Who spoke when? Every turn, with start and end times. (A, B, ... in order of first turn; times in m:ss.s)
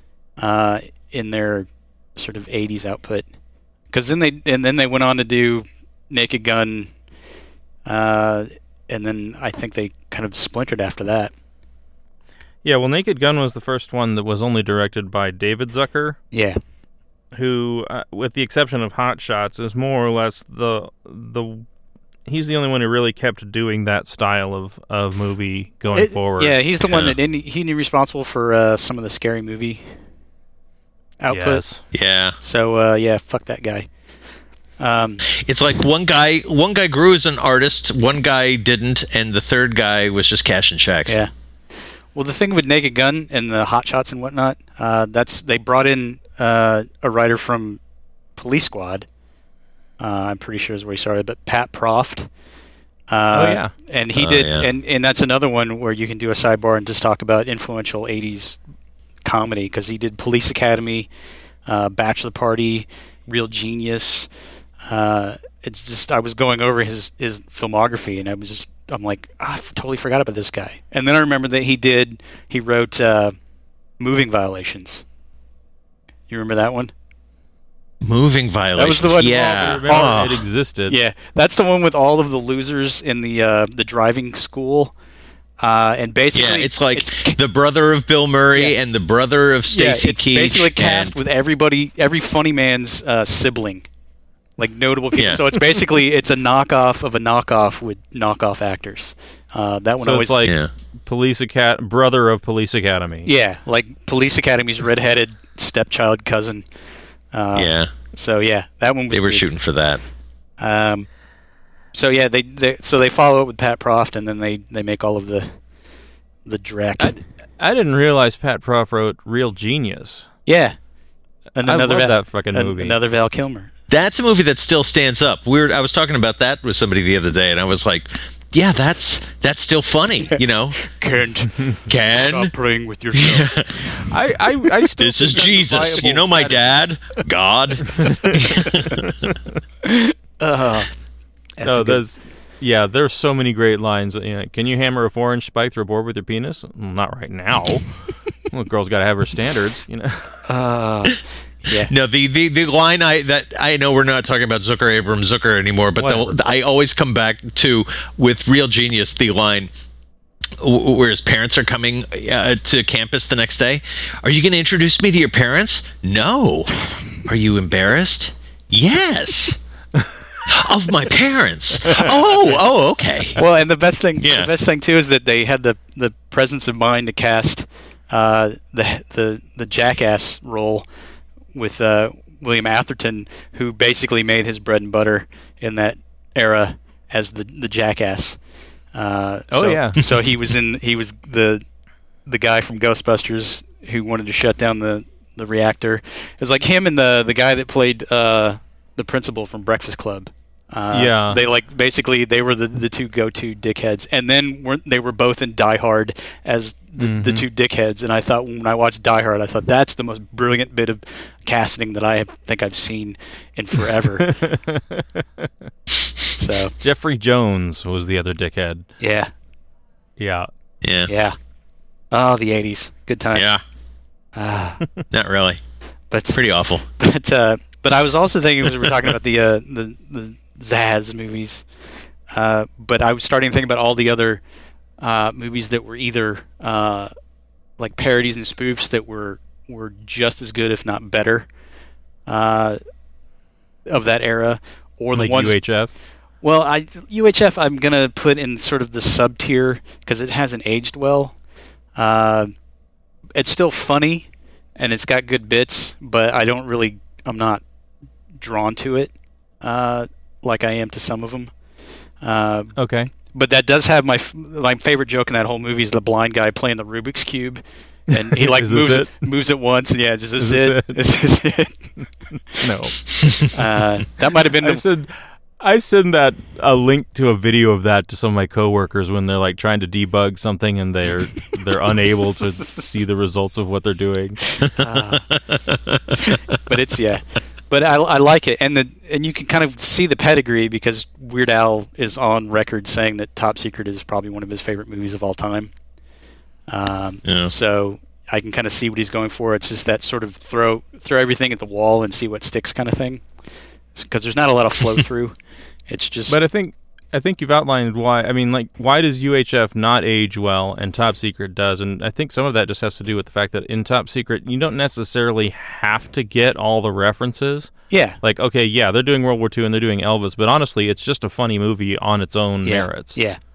0:00.4-0:03.3 A
0:03.9-0:06.9 A
0:07.8-0:11.3 A
0:12.6-0:16.2 B
0:16.3-0:16.6 A
0:17.3-0:21.6 B
0:22.3-0:26.6 B
0:25.9-0:29.8 A
0:26.9-0:27.2 C
0:31.2-0:31.6 A
0:31.3-0:31.8 B
0:31.9-0:32.4 C
0:32.4-0:33.9 A
0:34.8-0:35.2 A
0:35.3-0:41.2 C
0:42.1-0:47.8 A
0:48.4-0:49.1 A
0:50.0-0:52.3 A
0:53.1-0:58.6 A
0:53.3-0:53.7 B
0:54.1-0:54.7 C
0:59.2-1:01.1 A
1:01.7-1:04.3 A
1:04.8-1:13.4 A
1:14.0-1:15.0 A
1:16.3-1:16.9 A
1:18.0-1:20.4 C
1:18.8-1:20.2 A
1:19.2-1:21.0 B
1:20.9-1:24.9 A
1:25.6-1:27.4 A
1:26.3-1:31.2 C
1:29.7-1:33.9 A
1:34.6-1:40.4 A
1:35.1-1:35.4 C
1:40.0-1:43.3 B
1:40.4-1:40.7 C
1:43.2-1:46.7 A
1:47.3-1:49.5 A
1:47.5-1:47.9 C
1:49.1-1:50.0 C
1:50.6-1:51.1 A
1:51.9-1:55.6 A
1:56.4-1:57.2 A
1:57.0-2:00.3 B
2:00.5-2:00.8 A
2:01.6-2:03.7 A
2:01.6-2:03.0 B
2:03.9-2:10.8 C
2:10.2-2:14.0 A
2:11.9-2:12.5 C
2:13.1-2:13.8 C
2:14.1-2:16.8 B
2:15.0-2:19.0 C
2:19.8-2:20.9 A
2:21.6-2:22.0 A
2:21.6-2:30.4 B
2:30.5-2:31.9 A
2:31.7-2:39.7 C
2:36.0-2:36.4 A
2:40.6-2:46.7 C
2:47.2-2:49.6 C
2:50.5-2:53.4 C
2:53.4-3:00.9 A
2:54.2-2:54.5 C
3:01.5-3:08.4 A
3:08.9-3:11.6 A
3:09.5-3:10.0 B
3:12.3-3:34.3 A
3:20.9-3:21.4 B
3:27.0-3:27.4 B
3:34.2-3:35.0 B
3:36.4-3:36.7 A
3:36.8-3:38.9 B
3:39.0-3:39.3 A
3:40.2-3:40.5 B
3:40.8-3:41.1 C
3:41.1-3:41.4 A
3:42.1-3:43.5 A
3:43.3-3:43.6 C
3:44.4-3:44.8 A
3:45.1-3:45.6 C
3:46.1-3:46.4 A
3:46.3-3:46.8 C
3:47.0-3:51.6 A
3:52.3-3:54.4 A
3:55.0-3:57.1 A
3:57.8-4:01.5 A
4:02.3-4:02.8 A
4:03.9-4:05.8 A
4:05.1-4:05.9 B
4:06.4-4:11.4 A
4:12.0-4:12.5 A
4:13.4-4:17.6 A
4:18.4-4:21.5 A
4:22.2-4:31.8 A
4:22.8-4:23.1 B
4:28.3-4:29.2 B
4:30.4-4:31.1 B
4:32.6-4:33.0 B
4:33.5-4:34.8 A
4:34.6-4:44.4 B
4:42.4-4:42.9 A
4:44.8-4:45.3 A
4:45.7-4:46.3 C
4:46.3-4:55.7 A
4:56.7-5:03.3 A
4:57.2-4:57.5 C
5:04.0-5:05.4 A
5:05.9-5:06.4 A
5:06.3-5:23.2 B
5:17.9-5:18.2 A
5:22.6-5:23.4 A